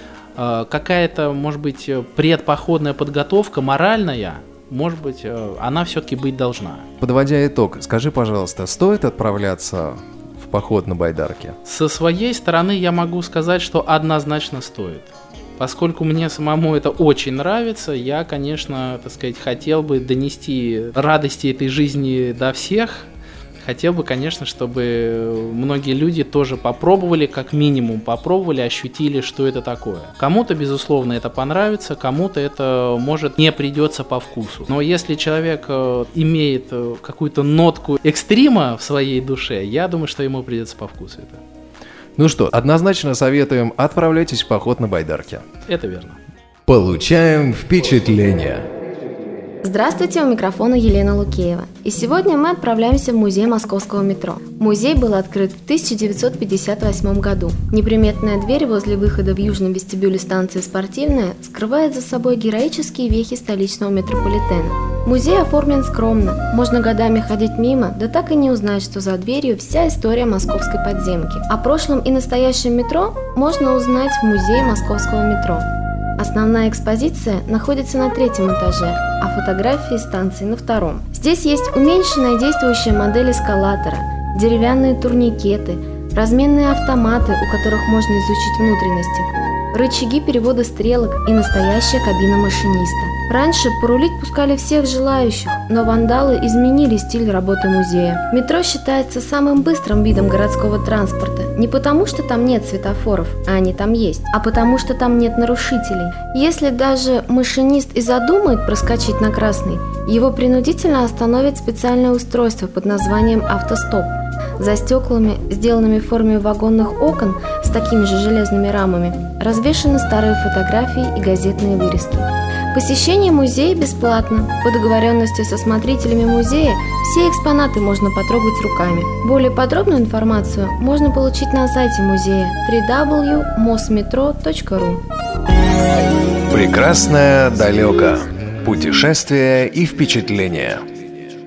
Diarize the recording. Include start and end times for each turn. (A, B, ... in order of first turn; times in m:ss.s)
0:00.3-0:06.9 A
0:07.0-0:11.6 B
0:11.6-0:23.1 A
0:23.6-0:41.4 A
0:42.2-0:45.4 B
0:45.6-0:46.2 A
0:46.6-0:48.6 B
0:49.6-1:15.6 C
1:16.2-2:15.0 C
2:16.5-2:20.8 B